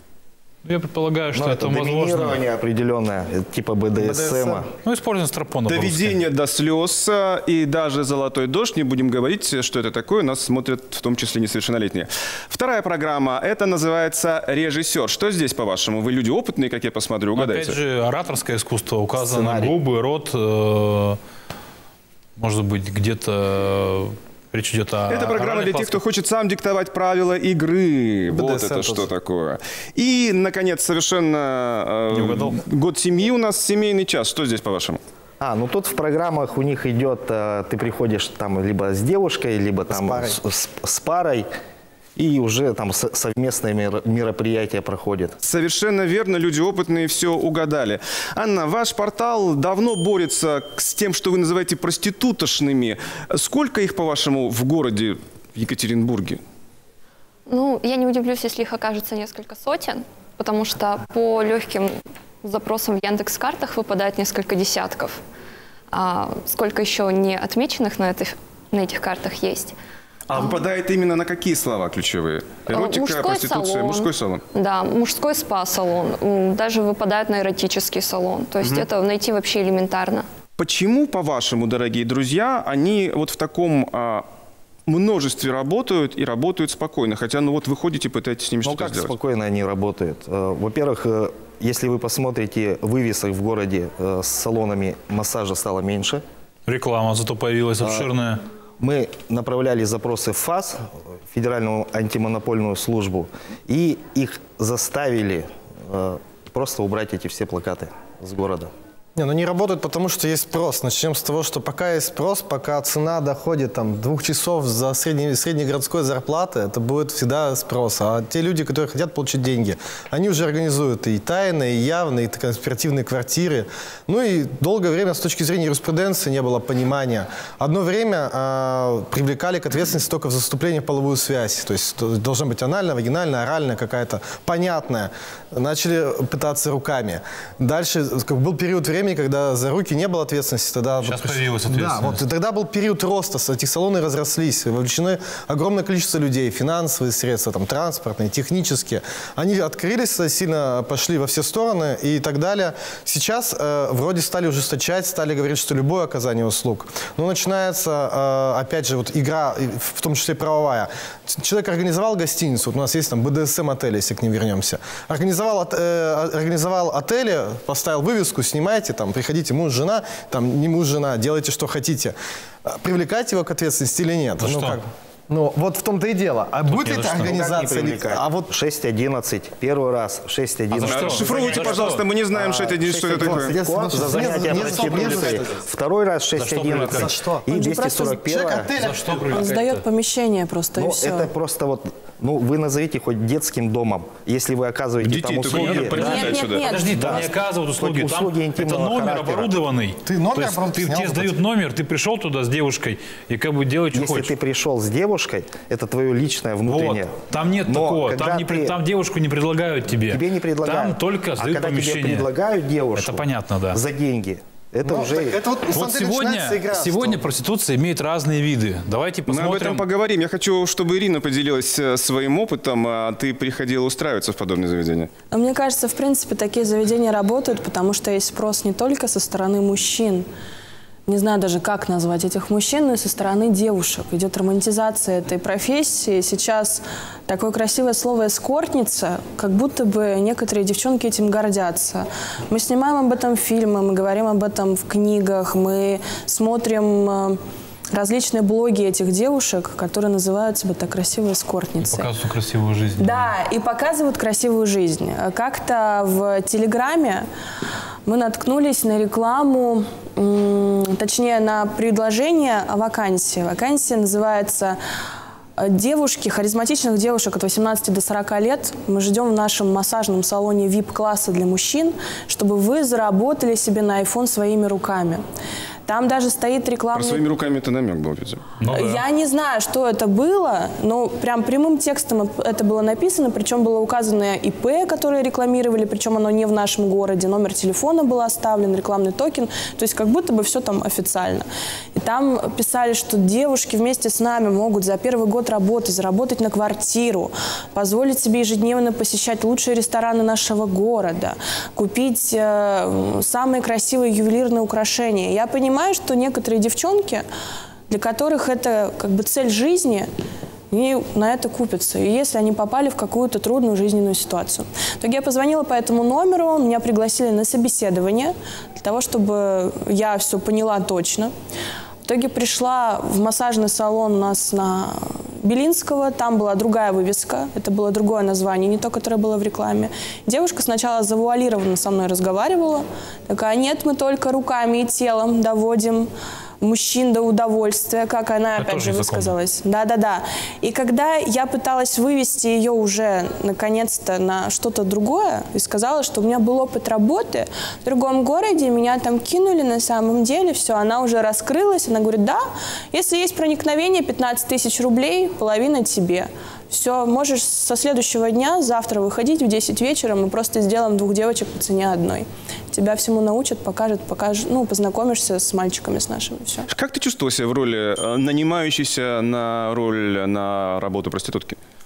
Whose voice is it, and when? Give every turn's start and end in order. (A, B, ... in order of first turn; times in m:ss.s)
0:00.6-0:02.4 A
0:01.3-0:04.7 B
0:04.0-0:04.7 C
0:04.8-0:06.2 A
0:05.7-0:17.8 D
0:17.4-0:21.2 A
0:19.2-0:19.8 B
0:22.4-0:26.0 A
0:25.1-0:35.0 D
0:28.3-0:29.1 C
0:32.2-0:32.6 A
0:35.4-0:41.5 B
0:39.9-0:40.4 C
0:42.2-0:45.4 B
0:45.4-0:56.4 D
0:57.5-1:05.2 E
1:05.9-1:09.8 E
1:10.3-1:14.4 D
1:12.7-1:20.3 E
1:20.6-1:24.3 D
1:24.9-1:29.1 D
1:28.6-1:36.2 B
1:36.7-1:38.4 A
1:37.8-1:38.1 B
1:38.8-1:48.7 B
1:49.2-2:58.5 C
2:21.0-2:22.2 A
2:54.4-2:54.8 A
2:56.7-2:57.3 A
2:57.1-3:08.7 B
3:00.7-3:02.0 A
3:00.8-3:03.6 D
3:03.2-3:05.5 C
3:06.4-3:07.1 A
3:06.8-3:07.4 C
3:07.5-3:08.3 F
3:08.2-3:09.3 C
3:08.8-3:09.8 A
3:09.2-3:11.3 F
3:10.8-3:16.3 B
3:15.0-3:16.7 D
3:15.5-3:24.3 A
3:16.0-3:17.3 F
3:16.9-3:19.6 B
3:20.1-3:21.4 C
3:23.9-3:27.1 B
3:26.7-3:32.3 A
3:27.7-3:28.8 B
3:30.1-3:35.4 B
3:33.0-3:33.8 A
3:34.8-3:37.2 C
3:35.7-3:39.9 A
3:39.3-3:45.1 D
3:45.3-3:50.3 F
3:51.1-4:07.4 F
4:07.9-4:12.1 F
4:11.8-4:13.3 A
4:13.0-4:17.3 F
4:18.1-4:24.8 F
4:25.6-4:35.2 F
4:35.9-4:37.3 F
4:36.9-4:38.4 D
4:38.6-4:39.0 A
4:38.7-5:07.2 F
5:07.9-5:10.1 F
5:10.7-5:21.3 F
5:22.0-5:36.1 F
5:36.6-6:06.7 F
5:38.6-5:39.4 A
6:06.7-6:11.6 D